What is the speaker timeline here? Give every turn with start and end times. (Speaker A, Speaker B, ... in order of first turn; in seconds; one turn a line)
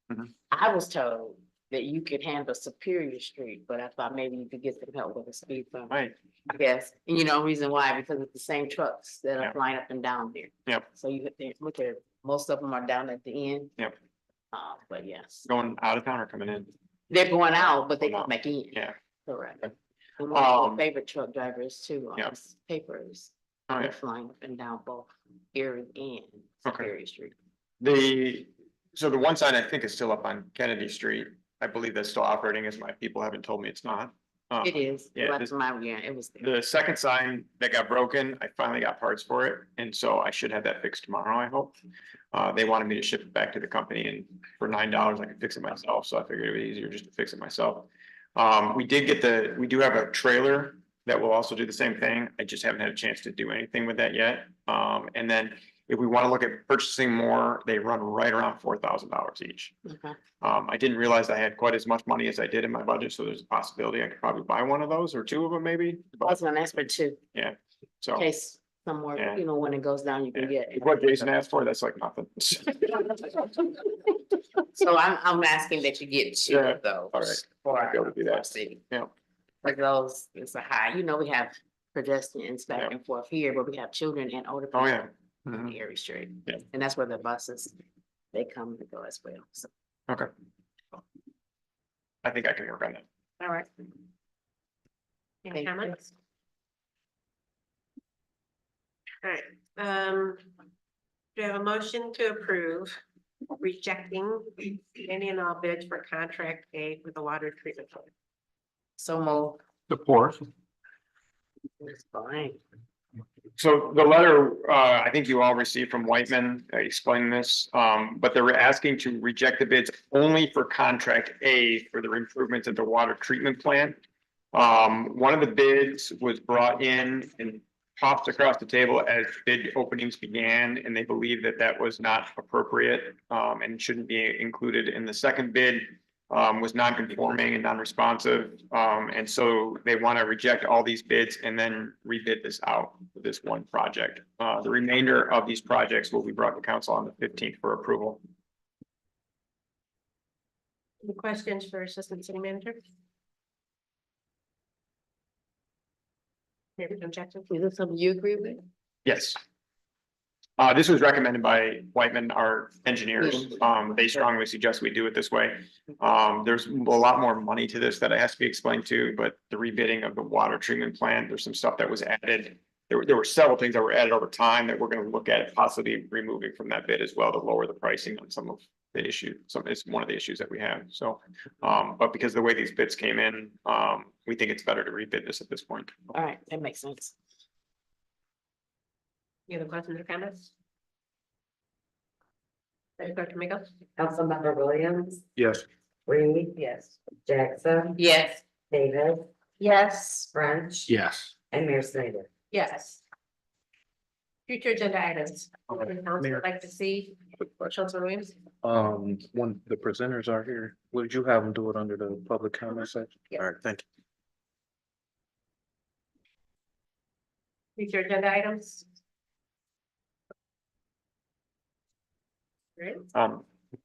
Speaker A: 0.5-6.0
Speaker A: 6.5-13.7
Speaker A: 14.5-15.4
Speaker B: 15.4-16.7
Speaker A: 17.1-27.3
Speaker B: 18.0-18.9
Speaker B: 20.3-20.8
Speaker B: 23.7-23.9
Speaker B: 27.8-35.5
Speaker A: 34.6-36.5
Speaker B: 36.4-41.8
Speaker B: 42.3-59.7
Speaker A: 59.9-60.2
Speaker B: 60.4-66.4
Speaker A: 66.2-67.2
Speaker B: 67.3-68.3
Speaker A: 68.2-71.0
Speaker B: 69.2-69.4
Speaker B: 70.3-73.5
Speaker A: 74.7-78.8
Speaker B: 76.5-79.1
Speaker A: 79.6-87.8
Speaker B: 84.7-85.7
Speaker A: 88.3-89.7
Speaker B: 92.2-93.0
Speaker C: 95.5-96.1
Speaker A: 95.5-96.0
Speaker C: 99.2-100.4
Speaker C: 101.4-103.0
Speaker C: 103.6-108.1
Speaker A: 109.0-109.6
Speaker A: 111.8-112.6
Speaker B: 113.6-124.0
Speaker B: 124.5-148.2
Speaker C: 151.0-152.8
Speaker C: 156.8-157.5
Speaker A: 157.5-158.6
Speaker B: 159.1-159.4
Speaker B: 160.6-185.9
Speaker A: 163.2-163.6
Speaker A: 186.1-187.2
Speaker C: 189.5-190.5
Speaker C: 193.0-193.7
Speaker D: 194.0-195.2
Speaker E: 195.4-195.7
Speaker D: 196.1-198.0
Speaker A: 198.0-198.4
Speaker D: 198.7-199.3
Speaker A: 199.6-200.3
Speaker D: 200.2-200.9
Speaker D: 201.5-202.3
Speaker C: 202.5-203.0
Speaker C: 204.5-208.4
Speaker E: 208.6-213.8
Speaker C: 217.8-218.8
Speaker C: 222.8-223.1
Speaker B: 223.1-223.4